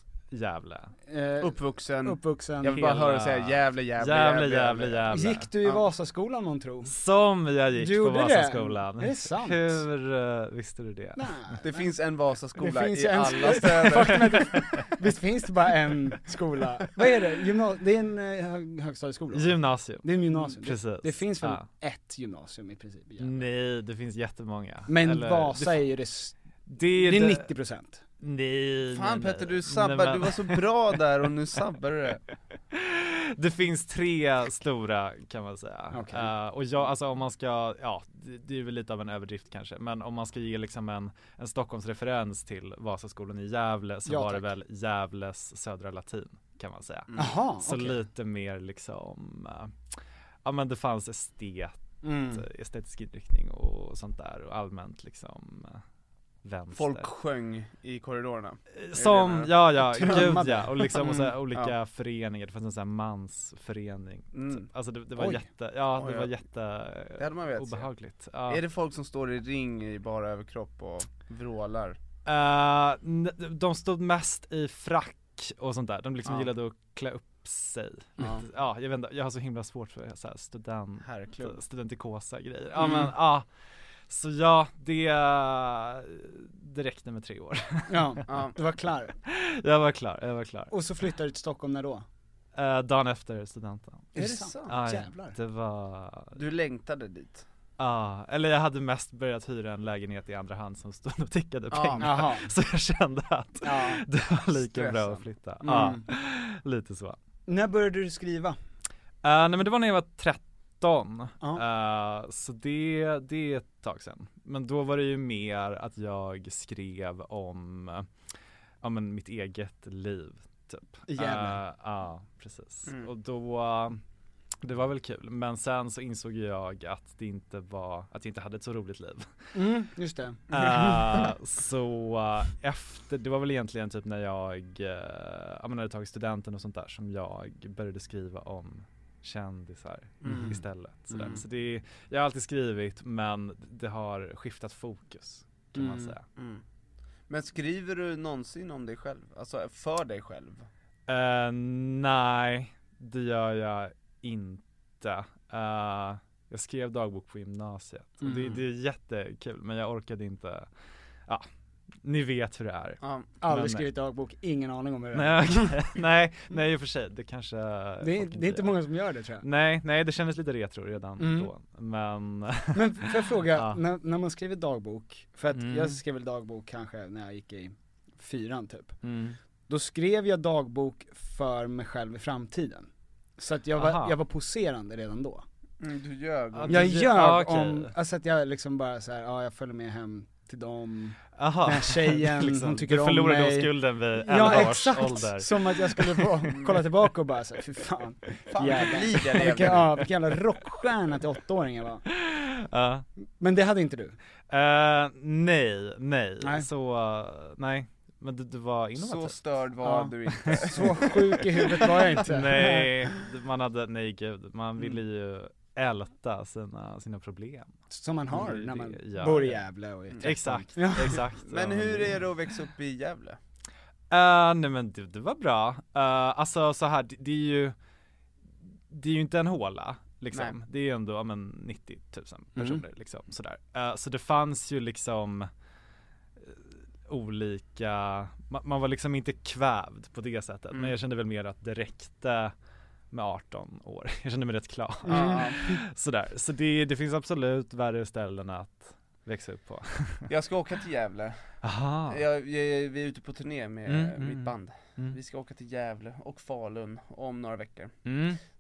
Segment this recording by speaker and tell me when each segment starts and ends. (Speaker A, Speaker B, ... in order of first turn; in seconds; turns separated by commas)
Speaker A: 0.3-0.9, Speaker B: 1.1-2.9, Speaker C: 1.4-5.8, Speaker A: 2.7-5.5, Speaker B: 5.1-6.9, Speaker A: 6.9-11.3, Speaker B: 7.8-9.8, Speaker B: 11.2-11.9, Speaker C: 11.6-14.4, Speaker B: 12.6-23.4, Speaker A: 13.9-14.8, Speaker A: 19.3-21.6, Speaker A: 23.2-25.8, Speaker B: 24.9-26.4, Speaker A: 26.7-27.5, Speaker B: 26.9-28.0, Speaker A: 28.2-30.7, Speaker C: 28.9-32.2, Speaker A: 32.7-49.8, Speaker B: 35.9-36.3, Speaker B: 44.0-44.5, Speaker B: 47.2-48.0, Speaker A: 50.4-55.8, Speaker B: 52.0-52.5, Speaker A: 56.4-57.1, Speaker C: 56.7-60.3, Speaker A: 58.8-68.6, Speaker B: 59.9-61.4, Speaker C: 64.3-64.7, Speaker B: 65.2-65.4, Speaker C: 66.0-66.3, Speaker C: 67.2-67.9, Speaker C: 68.5-72.0, Speaker A: 72.3-83.5, Speaker C: 76.2-76.5, Speaker C: 81.0-81.6, Speaker C: 82.8-83.1, Speaker A: 84.1-88.2, Speaker B: 87.9-89.2, Speaker C: 88.3-88.5, Speaker A: 89.3-90.7, Speaker B: 90.7-92.1, Speaker A: 92.5-94.1, Speaker C: 94.1-94.8, Speaker B: 94.2-95.4, Speaker A: 94.7-96.4, Speaker C: 96.4-97.5, Speaker A: 97.8-107.2, Speaker C: 101.7-102.3, Speaker B: 102.0-102.5, Speaker B: 103.6-104.0, Speaker C: 104.6-105.9, Speaker B: 105.6-106.0, Speaker B: 107.5-108.6, Speaker A: 109.2-118.1, Speaker A: 118.8-124.0, Speaker B: 121.1-121.6, Speaker A: 124.6-129.5, Speaker B: 129.5-131.1, Speaker A: 130.5-146.2, Speaker C: 140.2-140.6, Speaker B: 140.3-140.6, Speaker C: 141.1-141.4, Speaker B: 145.8-146.2, Speaker C: 146.4-146.6, Speaker C: 147.3-150.7, Speaker A: 151.1-160.7, Speaker B: 158.2-158.6, Speaker A: 162.0-163.9, Speaker C: 163.0-163.3, Speaker B: 163.4-165.9, Speaker A: 165.1-168.8, Speaker B: 168.0-169.5, Speaker A: 169.4-173.8, Speaker B: 171.2-171.5, Speaker B: 172.7-179.0, Speaker A: 175.5-176.0, Speaker A: 179.0-179.4, Speaker B: 179.7-185.4, Speaker A: 183.8-184.2, Speaker C: 185.8-187.0, Speaker A: 186.5-187.9, Speaker B: 186.7-202.0, Speaker A: 191.4-196.3, Speaker C: 194.3-194.7, Speaker C: 196.5-196.8, Speaker C: 198.5-200.0, Speaker A: 202.3-203.1, Speaker B: 203.4-204.2, Speaker A: 204.5-209.4, Speaker B: 206.4-206.7, Speaker C: 209.0-211.9, Speaker B: 209.8-213.1, Speaker A: 210.4-210.9, Speaker A: 212.2-217.8, Speaker B: 217.9-221.2, Speaker A: 218.3-219.6, Speaker A: 220.2-222.2, Speaker C: 221.1-223.4, Speaker A: 224.1-227.8, Speaker A: 228.9-235.5, Speaker C: 230.3-230.6, Speaker B: 232.6-232.8, Speaker A: 236.4-242.5, Speaker A: 243.1-250.3, Speaker B: 245.1-245.8, Speaker C: 245.1-245.7, Speaker C: 250.3-251.6, Speaker A: 251.6-252.2, Speaker C: 252.1-258.0, Speaker A: 253.9-255.2, Speaker A: 258.1-258.4